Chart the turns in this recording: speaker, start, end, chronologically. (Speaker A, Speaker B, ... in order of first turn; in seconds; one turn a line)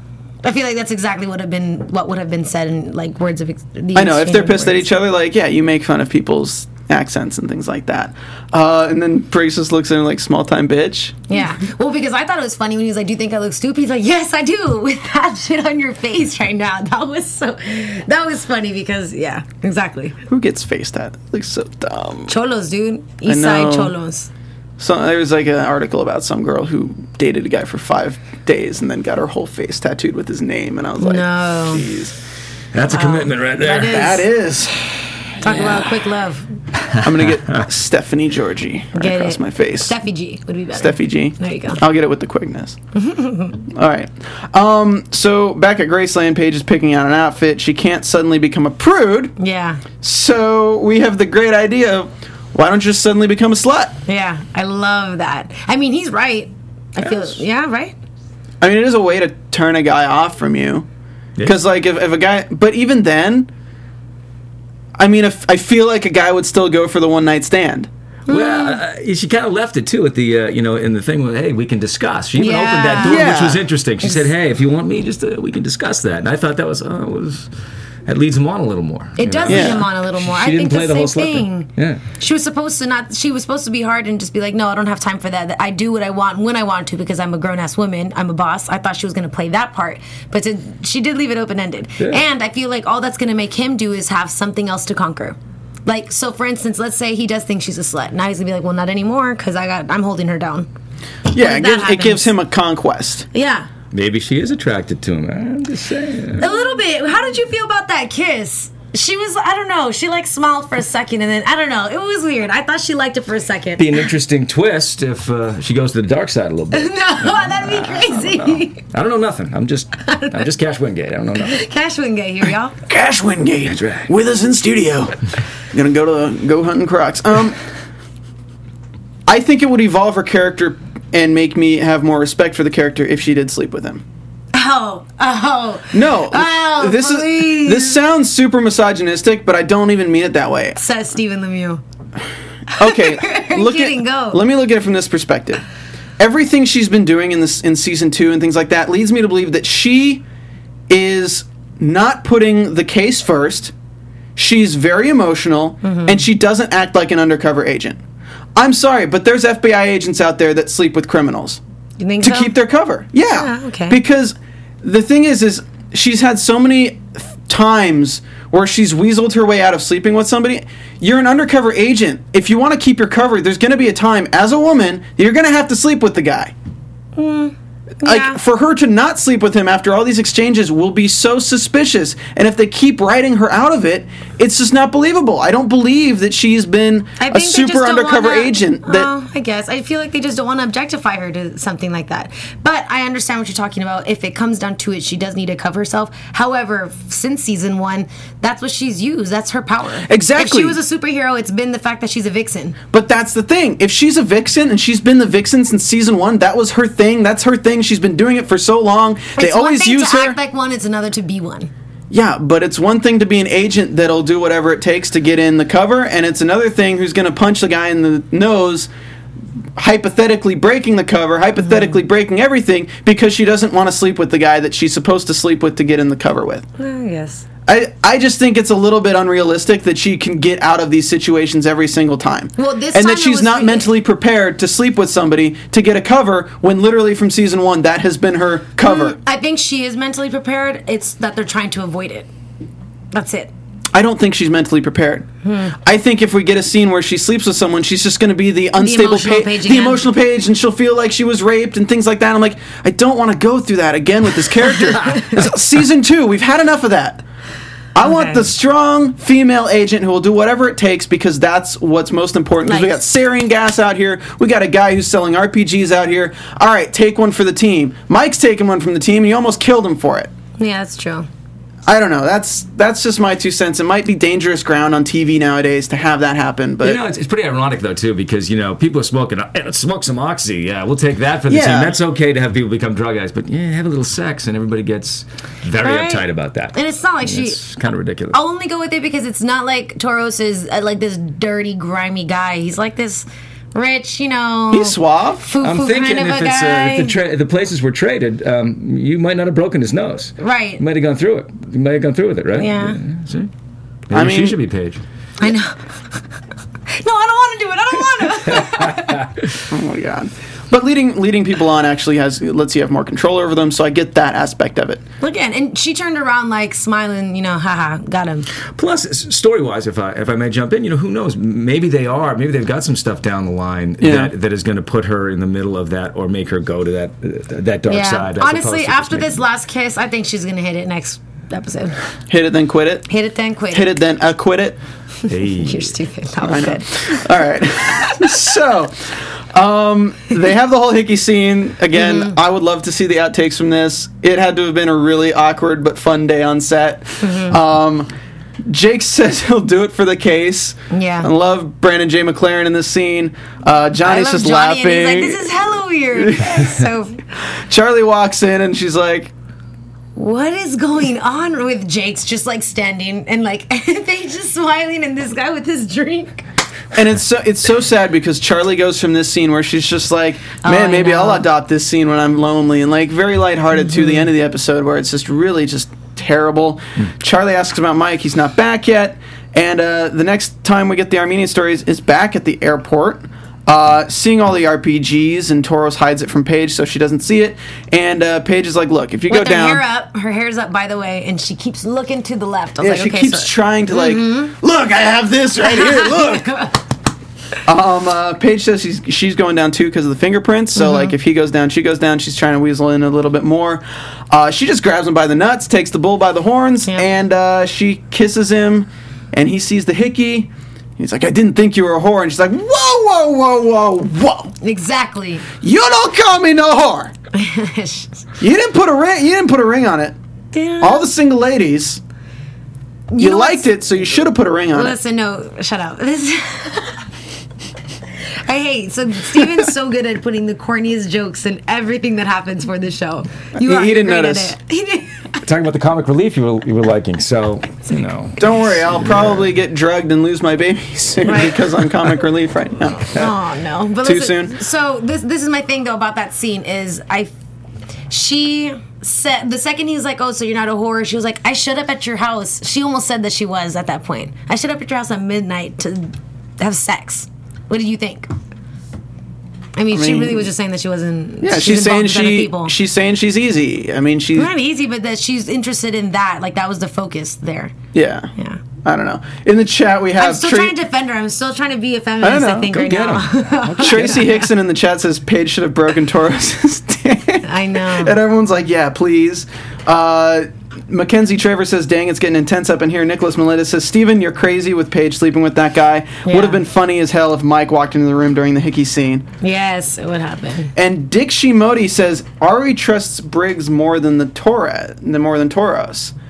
Speaker A: 0.4-4.9
Speaker B: 3.9-11.3
Speaker A: 11.3-20.1
Speaker B: 20.3-22.4
Speaker A: 22.3-24.3
Speaker B: 23.2-23.9
Speaker B: 24.8-32.1
Speaker A: 31.0-31.8
Speaker C: 32.7-34.2
Speaker A: 32.9-34.2
Speaker B: 33.6-35.9
Speaker A: 35.4-36.5
Speaker C: 36.9-37.6
Speaker B: 37.0-40.0
Speaker A: 38.9-41.8
Speaker B: 40.7-42.8
Speaker A: 42.9-43.5
Speaker B: 43.6-49.3
Speaker A: 49.4-49.8
Speaker B: 50.0-54.0
Speaker A: 54.1-57.9
Speaker B: 57.0-57.4
Speaker B: 58.6-60.9
Speaker B: 61.4-63.5
Speaker B: 65.0-67.9
Speaker A: 68.3-68.8
Speaker C: 68.3-77.5
Speaker A: 72.4-73.3
Speaker B: 73.0-73.6
Speaker A: 74.0-74.3
Speaker C: 78.0-82.0
Speaker A: 79.2-100.7
Speaker B: 79.5-79.8
Speaker B: 101.3-103.3
Speaker A: 101.3-102.3
Speaker A: 103.3-103.7
Speaker C: 103.9-106.5
Speaker A: 106.4-114.0
Speaker C: 113.8-121.6
Speaker A: 116.7-118.8
Speaker A: 120.0-120.4
Speaker A: 121.5-122.8
Speaker B: 122.9-125.2
Speaker C: 123.7-124.1
Speaker B: 125.7-127.6
Speaker B: 129.3-134.0
Speaker A: 134.5-138.0
Speaker B: 135.9-140.8
Speaker A: 140.8-141.8
Speaker A: 142.7-144.4
Speaker B: 142.8-145.6
Speaker B: 146.2-150.2
Speaker B: 150.9-153.7
Speaker B: 154.3-158.0
Speaker A: 155.8-156.2
Speaker B: 158.6-161.6
Speaker A: 162.0-162.5
Speaker B: 162.2-176.5
Speaker A: 163.3-164.0
Speaker A: 177.2-178.4
Speaker B: 178.0-189.1
Speaker A: 187.2-202.8
Speaker B: 200.1-200.8
Speaker B: 202.9-210.4
Speaker A: 209.4-211.7
Speaker B: 212.1-218.9
Speaker B: 219.8-226.7
Speaker A: 221.6-221.9
Speaker A: 226.8-227.4
Speaker B: 227.7-239.2
Speaker A: 232.6-233.9
Speaker A: 238.8-242.3
Speaker A: 243.1-243.5
Speaker B: 243.9-245.3
Speaker A: 245.4-245.7
Speaker B: 245.8-257.2
Speaker A: 248.8-250.1
Speaker A: 255.0-255.4
Speaker B: 257.9-270.3
Speaker A: 258.0-258.4
Speaker A: 262.6-263.0
Speaker A: 270.6-271.3
Speaker B: 271.9-277.0
Speaker C: 276.8-288.4
Speaker B: 281.5-281.9
Speaker A: 285.8-287.6
Speaker A: 288.3-297.1
Speaker B: 294.7-295.5
Speaker C: 295.6-303.5
Speaker A: 300.4-300.8
Speaker A: 302.6-303.0
Speaker C: 304.1-305.0
Speaker B: 304.1-304.6
Speaker A: 305.4-305.8
Speaker A: 306.9-309.2
Speaker C: 308.5-309.5
Speaker B: 309.7-315.0
Speaker A: 315.2-318.5
Speaker C: 318.7-329.4
Speaker B: 324.0-324.3
Speaker A: 327.9-331.9
Speaker B: 332.3-333.1
Speaker A: 333.1-334.0
Speaker B: 333.7-334.8
Speaker C: 335.3-335.9
Speaker A: 335.6-337.2
Speaker B: 336.4-348.1
Speaker A: 337.8-338.4
Speaker A: 341.9-342.3
Speaker A: 347.2-347.6
Speaker B: 348.6-355.5
Speaker A: 350.9-351.3
Speaker A: 354.0-357.2
Speaker B: 356.1-356.6
Speaker B: 357.5-359.3
Speaker A: 360.1-366.4
Speaker B: 366.9-389.8
Speaker A: 370.6-371.4
Speaker A: 373.8-374.2
Speaker A: 389.3-394.5
Speaker B: 392.8-396.5
Speaker A: 395.6-396.8
Speaker B: 397.6-414.5
Speaker A: 400.8-401.1
Speaker A: 414.6-415.5
Speaker B: 415.6-417.1
Speaker A: 417.3-418.1
Speaker B: 418.4-420.1
Speaker A: 420.5-421.1
Speaker B: 420.8-422.0
Speaker A: 423.1-423.7
Speaker B: 423.2-425.0
Speaker A: 424.7-427.0
Speaker A: 428.4-435.3
Speaker B: 433.6-434.5
Speaker C: 435.4-439.4
Speaker B: 438.4-443.2
Speaker A: 441.2-441.6
Speaker A: 443.1-447.3
Speaker B: 444.0-444.6
Speaker A: 448.1-458.3
Speaker A: 459.8-462.7
Speaker B: 459.9-460.5
Speaker B: 461.4-464.5
Speaker A: 464.4-467.7
Speaker B: 467.9-468.3
Speaker B: 468.8-470.7
Speaker A: 470.2-474.5
Speaker B: 472.2-472.9
Speaker C: 472.8-474.3
Speaker B: 473.8-489.2
Speaker A: 477.4-478.1
Speaker A: 486.2-486.6
Speaker A: 489.4-490.7
Speaker B: 490.7-496.1